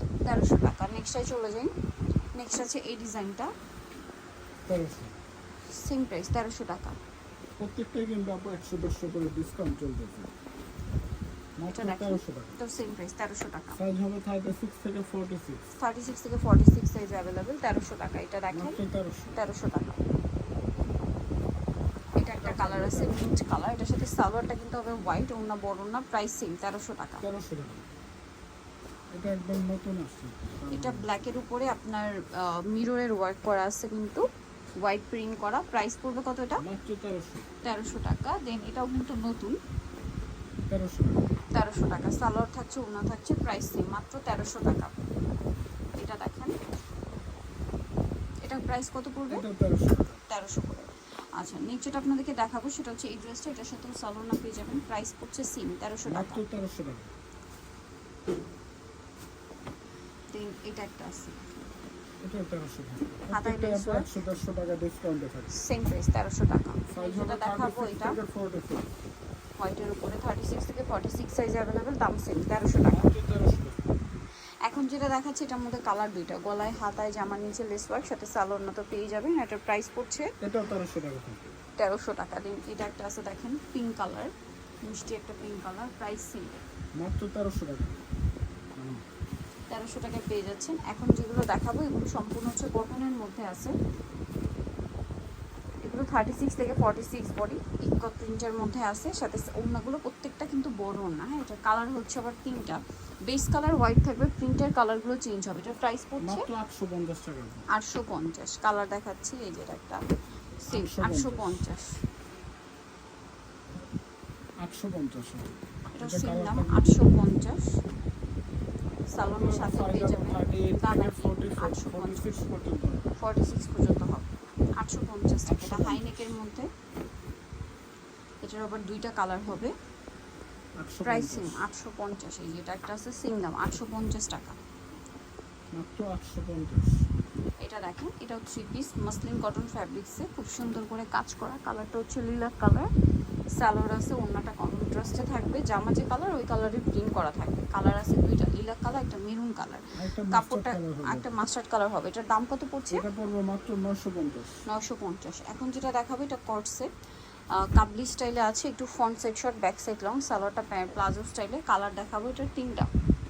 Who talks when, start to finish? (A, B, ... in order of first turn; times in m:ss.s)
0:00.2-0:01.7 A
0:02.4-0:03.5 A
0:04.7-0:05.2 B
0:05.7-0:07.0 A
0:07.6-0:10.3 B
0:11.6-0:12.6 B
0:11.7-0:13.8 A
0:13.8-0:15.6 B
0:15.7-0:18.8 A
0:18.5-0:19.4 B
0:19.4-0:19.9 A
0:22.2-0:27.2 A
0:22.4-0:23.4 B
0:27.2-0:27.9 B
0:29.1-0:31.1 B
0:30.7-0:34.2 A
0:34.8-0:36.6 A
0:36.6-0:37.5 B
0:37.6-0:39.6 A
0:40.7-0:41.3 B
0:41.5-0:44.9 A
0:46.0-0:46.6 A
0:48.4-0:49.4 A
0:49.3-0:50.2 B
0:50.3-0:56.4 A
0:56.1-0:57.1 B
1:00.3-1:01.6 A
1:02.2-1:05.5 B
1:03.3-1:04.1 A
1:05.5-1:08.2 A
1:06.9-1:08.9 B
1:09.6-1:13.1 A
1:12.9-1:13.8 B
1:14.6-1:20.3 A
1:20.4-1:21.5 B
1:21.8-1:24.3 A
1:24.8-1:26.6 A
1:27.0-1:28.0 B
1:28.8-1:29.0 B
1:29.7-1:33.7 A
1:35.8-1:46.5 A
1:46.2-1:47.7 B
1:47.7-1:50.0 A
1:50.6-1:52.0 A
1:50.7-1:51.6 B
1:54.6-1:57.2 B
1:55.9-1:57.7 A
1:59.1-2:02.4 A
1:59.2-2:03.0 B
2:03.2-2:04.3 A
2:04.8-2:06.7 A
2:05.5-2:06.4 B
2:08.4-2:09.7 A
2:10.8-2:11.7 B
2:11.0-2:14.6 A
2:15.7-2:17.0 B
2:17.6-2:22.9 A
2:23.6-2:33.0 A
2:30.0-2:31.3 B
2:32.9-2:34.6 B
2:34.7-2:36.9 A
2:37.6-2:42.9 A